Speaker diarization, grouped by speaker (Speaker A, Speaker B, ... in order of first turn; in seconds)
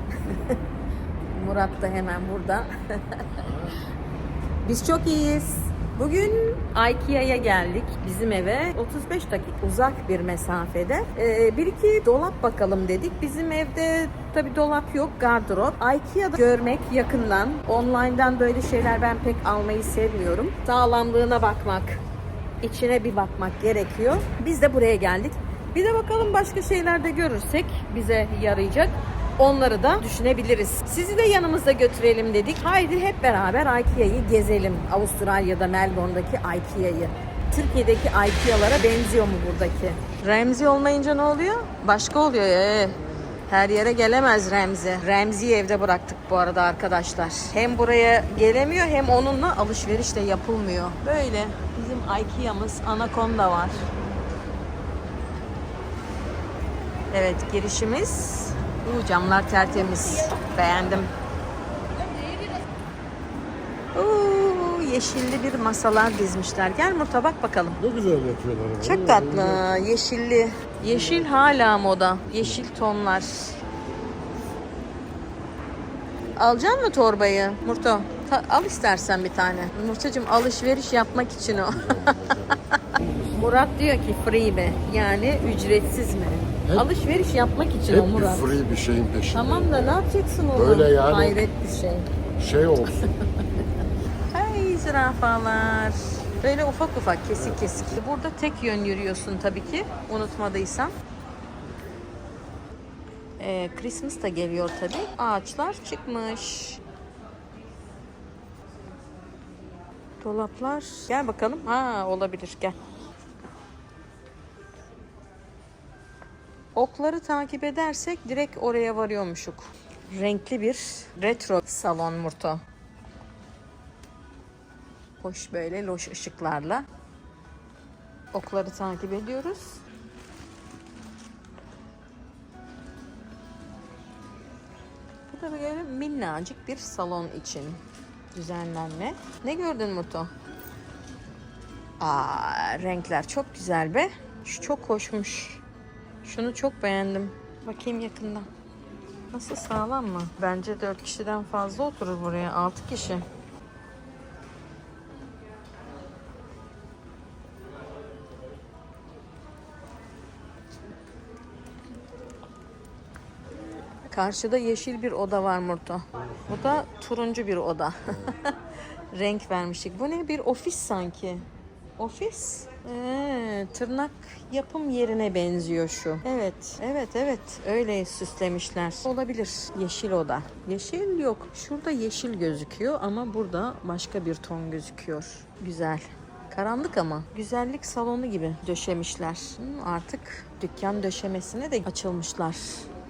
Speaker A: 0.2-0.6, 1.3-3.3, 4.6-22.0, 22.6-53.8, 57.1-61.1, 63.9-67.8, 68.8-73.5, 76.4-82.5, 83.3-88.5, 89.3-92.1, 93.0-93.2, 94.3-100.9, 103.4-106.8, 110.2-112.7, 116.7-122.6, 125.2-126.8, 128.3-129.8, 135.3-137.8, 138.3-140.3, 142.0-145.6, 146.2-148.5, 149.3-153.2, 164.1-168.6, 169.1-171.4, 172.0-192.9
Speaker B: 3.3-3.8, 67.8-69.7, 71.0-71.3, 72.3-72.6, 81.5-83.0, 86.6-86.9, 87.9-90.0, 90.5-91.4, 92.4-93.1, 97.3-98.0, 166.1-166.8, 168.1-168.3